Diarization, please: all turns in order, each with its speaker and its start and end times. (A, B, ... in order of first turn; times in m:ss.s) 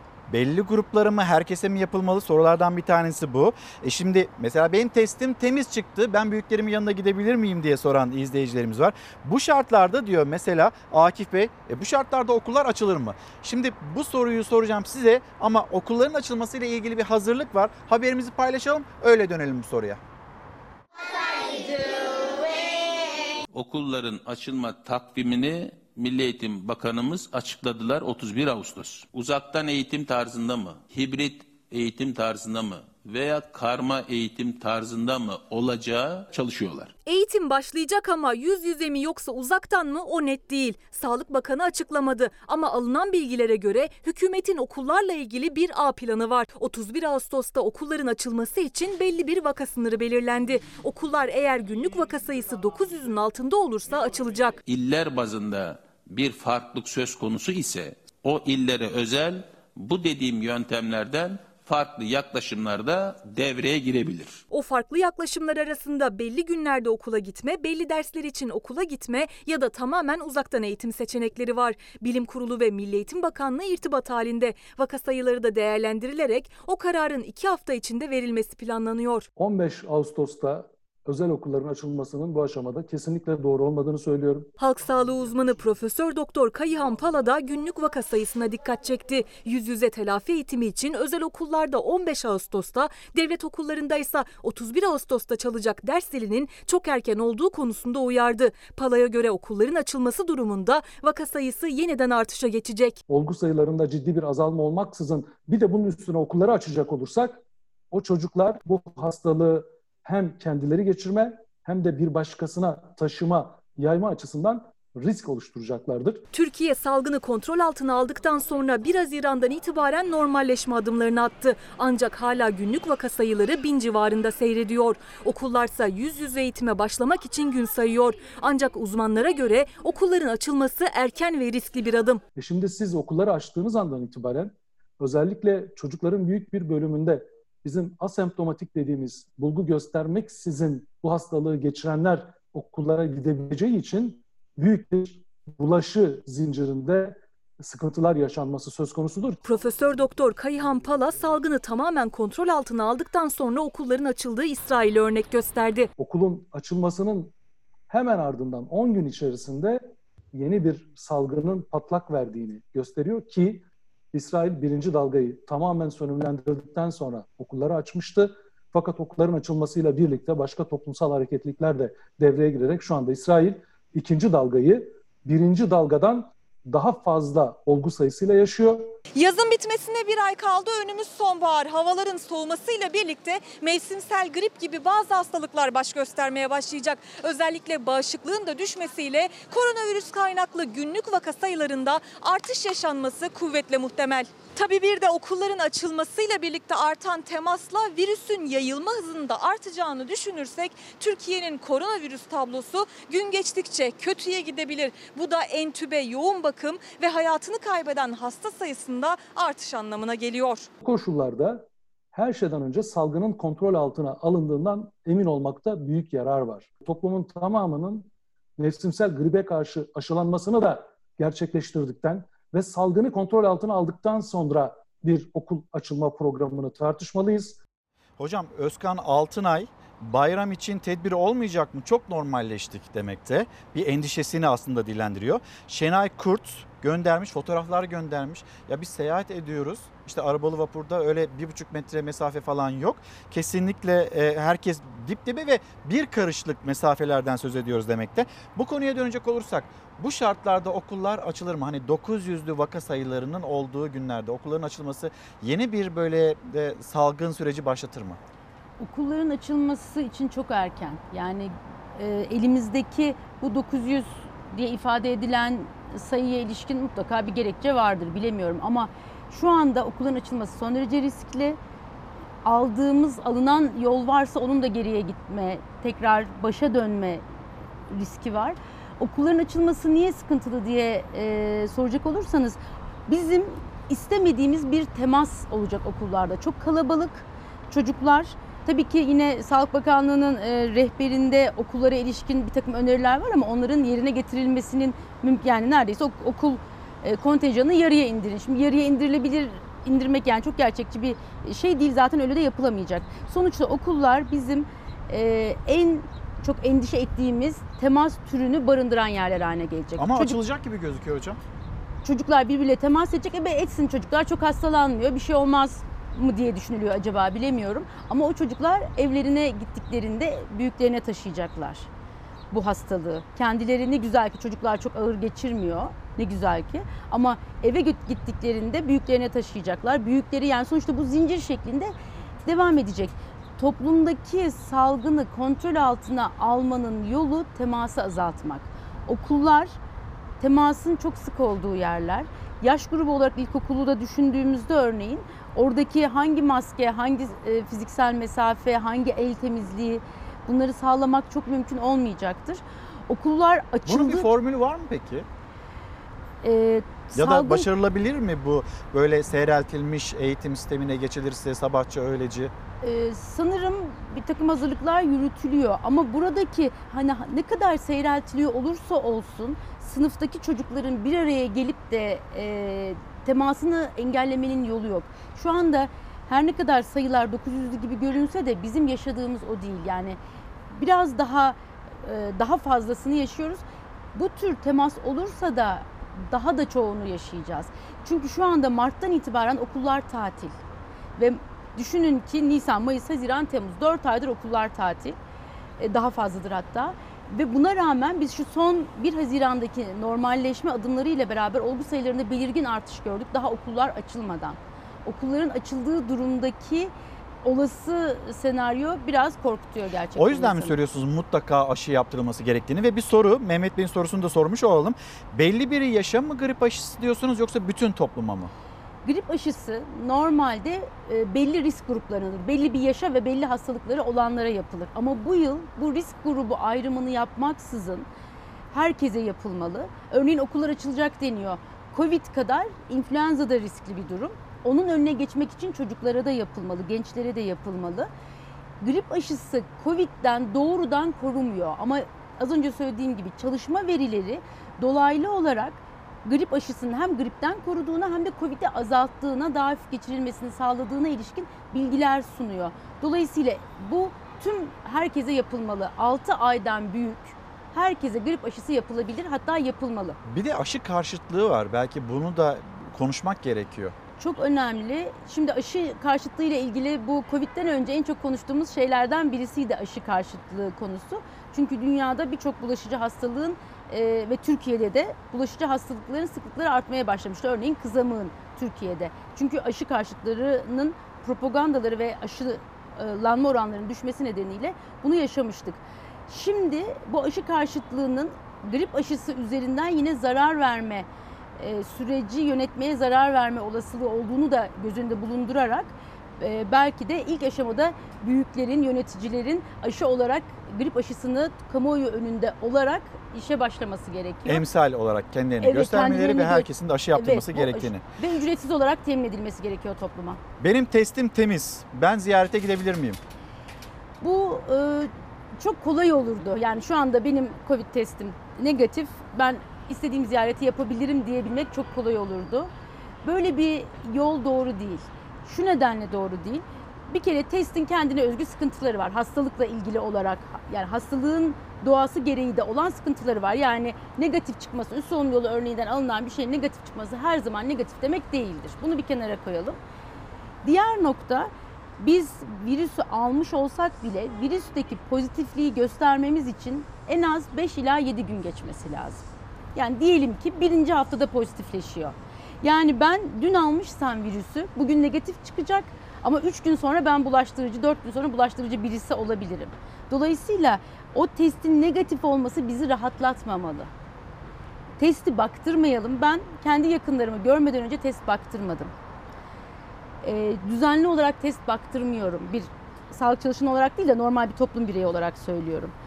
0:00.3-0:20.0 A
0:23.5-0:36.9 B
0:37.1-0:54.6 C
0:54.6-1:04.4 B
1:04.5-1:19.3 C
1:19.4-1:24.5 D
1:24.6-1:43.0 C
1:43.1-1:56.2 D
1:56.3-2:12.2 C
2:12.4-2:29.4 D
2:29.4-2:35.9 C
2:36.0-2:37.3 D
2:37.9-2:59.0 D
2:59.2-3:30.7 E
3:30.8-3:47.6 D
3:48.2-4:18.2 A
4:18.8-4:31.6 F
4:32.4-4:37.2 F
4:37.9-5:10.4 F
5:10.0-5:11.4 A
5:12.0-5:21.9 F
5:22.5-5:31.9 F
5:32.4-5:39.8 F
5:40.4-5:54.3 F
5:53.9-5:55.3 A
5:56.4-5:57.7 F
5:57.2-6:02.5 A
6:02.8-6:20.2 F
6:20.7-6:23.6 F
6:24.2-6:30.6 F
6:31.2-6:35.2 F
6:35.8-6:46.9 F
6:47.4-6:50.8 F
6:50.2-6:58.5 A
6:59.0-7:08.1 F
7:08.7-7:18.1 F
7:18.8-7:40.2 F
7:40.2-7:44.0 A
7:44.2-8:11.1 F
8:11.6-8:24.6 F
8:24.5-8:28.0 A
8:25.6-8:30.4 F
8:30.6-8:33.2 A
8:34.2-8:42.7 F
8:43.2-8:59.8 F
9:00.6-9:23.9 F
9:25.0-9:28.9 F
9:30.2-9:35.9 F